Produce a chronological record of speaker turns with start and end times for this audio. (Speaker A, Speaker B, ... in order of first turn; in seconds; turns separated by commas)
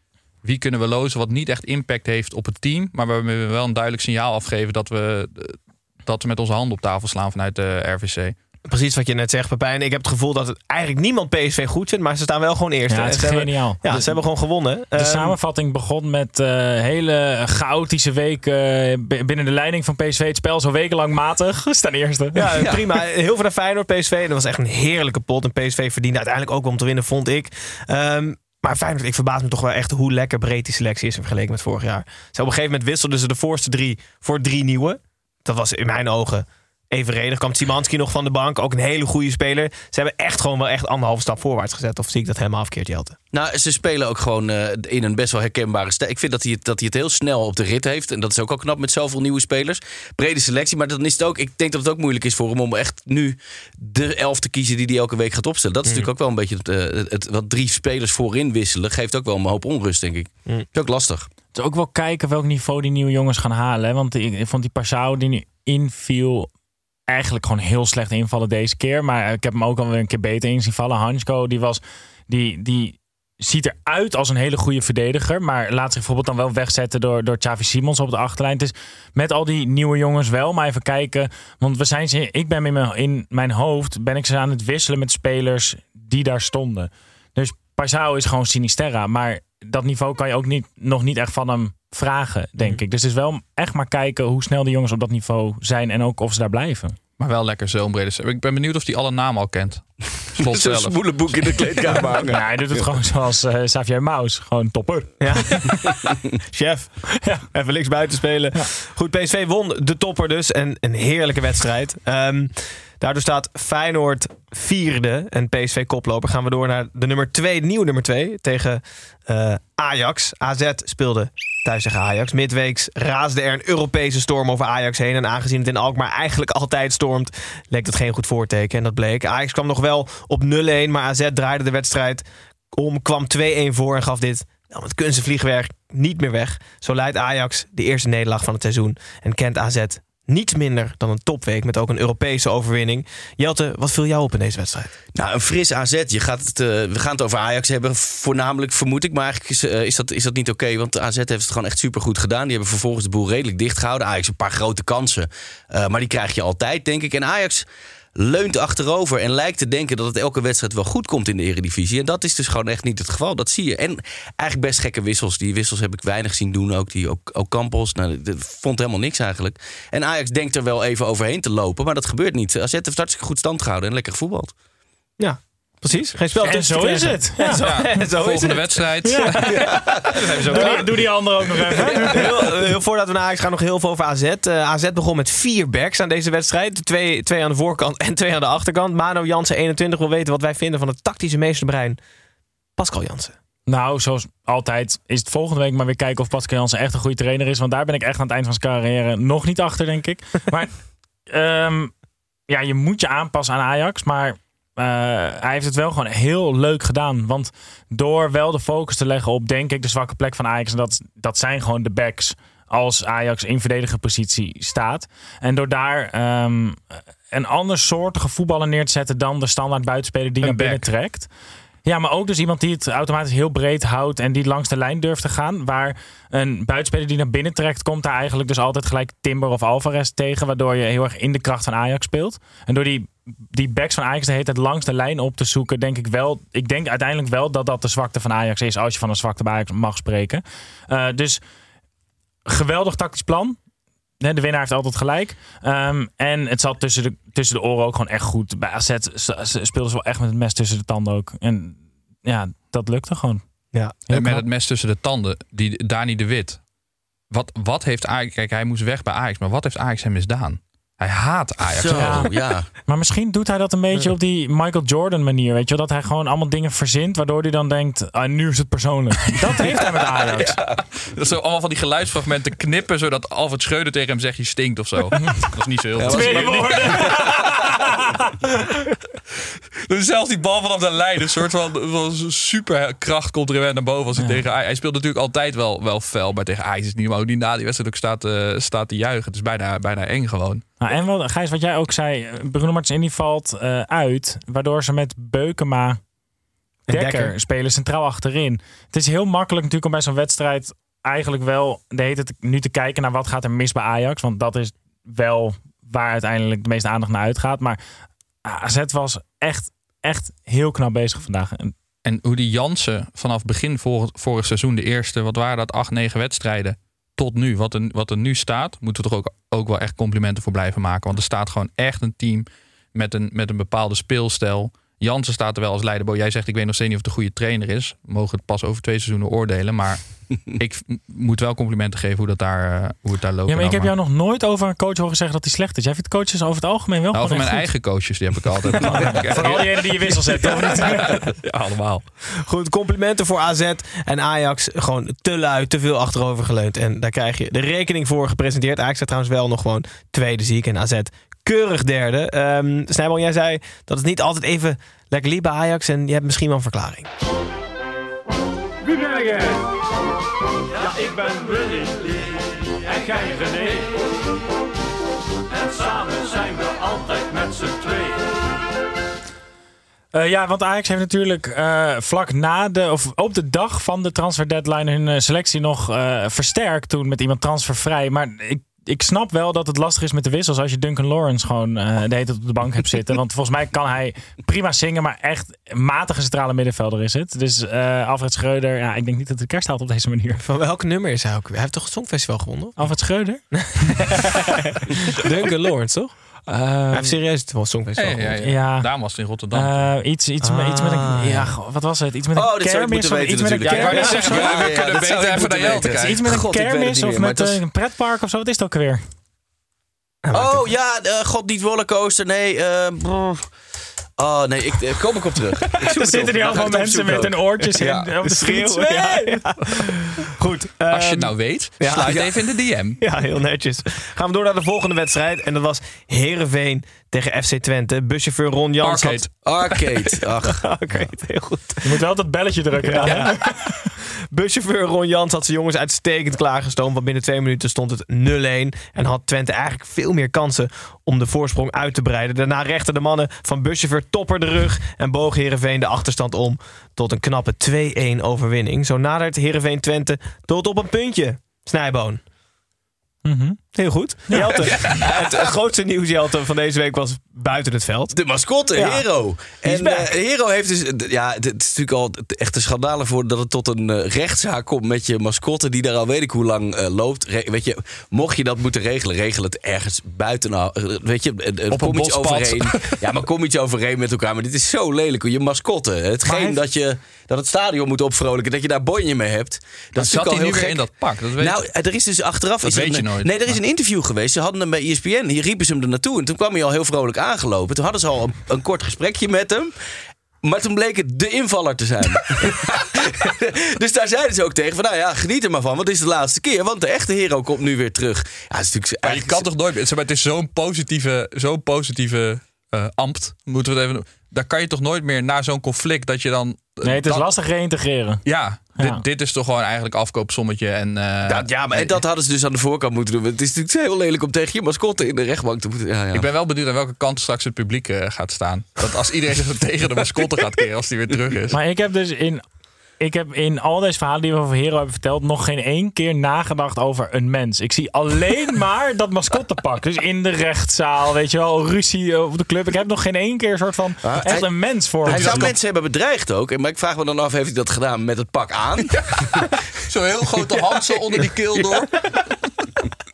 Speaker A: 0.4-8.3, Speaker B: 8.7-15.4, Speaker C: 12.9-14.2, Speaker C: 14.9-22.6, Speaker B: 22.3-43.2, Speaker D: 43.3-61.3, Speaker C: 61.5-66.5, Speaker C: 67.1-97.0, Speaker A: 97.2-102.0, Speaker D: 100.4-102.8, Speaker C: 102.3-105.6, Speaker B: 105.2-105.7, Speaker B: 106.5-144.9, Speaker D: 145.1-157.6, Speaker D: 158.2-174.5, Speaker B: 175.2-181.0, Speaker C: 176.4-177.9, Speaker A: 177.6-180.8, Speaker C: 179.0-179.7, Speaker C: 180.5-182.3, Speaker B: 181.9-192.0, Speaker B: 192.8-193.3, Speaker C: 193.7-200.8, Speaker C: 201.3-201.9, Speaker C: 202.5-221.3, Speaker A: 220.4-220.9, Speaker C: 221.8-241.4, Speaker C: 242.4-243.6, Speaker C: 244.2-253.4, Speaker B: 253.7-254.0, Speaker C: 254.1-254.4, Speaker A: 254.1-256.6, Speaker A: 257.3-262.2, Speaker D: 261.7-262.7, Speaker C: 261.9-262.3, Speaker C: 262.9-270.6, Speaker A: 271.1-277.5, Speaker D: 276.0-277.4, Speaker C: 276.1-278.1, Speaker A: 279.8-290.6, Speaker C: 290.8-296.0, Speaker B: 296.9-297.3, Speaker C: 296.9-307.8, Speaker C: 308.4-311.7, Speaker A: 312.0-333.9, Speaker C: 333.5-337.7, Speaker A: 337.1-342.1, Speaker C: 338.8-341.2, Speaker B: 342.4-357.1, Speaker E: 358.9-359.6, Speaker E: 360.8-363.9, Speaker E: 365.6-368.2, Speaker C: 370.1-390.4, Speaker B: 390.4-392.8, Speaker C: 392.8-393.4, Speaker B: 393.5-396.1, Speaker C: 396.5-397.2, Speaker B: 396.9-398.4, Speaker A: 398.0-399.9, Speaker C: 398.4-398.9, Speaker C: 399.5-404.6, Speaker B: 400.4-401.5, Speaker D: 402.4-407.6, Speaker A: 403.6-406.2, Speaker B: 403.8-404.5, Speaker C: 405.9-409.0, Speaker B: 410.2-410.7, Speaker D: 410.3-413.5, Speaker D: 414.2-418.0, Speaker C: 415.8-419.6, Speaker B: 417.6-422.5, Speaker A: 420.9-423.0, Speaker B: 423.0-429.4, Speaker A: 428.8-429.3, Speaker D: 429.4-430.7, Speaker B: 430.4-432.0, Speaker C: 431.8-433.8, Speaker B: 432.8-433.6, Speaker A: 433.0-433.3, Speaker B: 434.3-452.2, Speaker C: 453.2-453.7, Speaker B: 453.7-458.2, Speaker D: 454.7-455.5, Speaker D: 458.1-480.9, Speaker B: 458.7-459.1, Speaker B: 459.6-460.1, Speaker A: 471.7-473.0, Speaker A: 479.9-481.6, Speaker D: 481.4-489.7, Speaker A: 482.6-483.6, Speaker D: 490.4-499.4, Speaker A: 499.0-507.3, Speaker C: 506.8-508.2, Speaker A: 508.2-512.0, Speaker C: 508.8-509.0, Speaker D: 511.3-516.3, Speaker A: 516.1-521.6, Speaker C: 521.5-522.4, Speaker C: 523.0-535.5, Speaker D: 534.0-534.5, Speaker D: 535.0-539.4, Speaker A: 535.1-535.5, Speaker A: 538.9-542.1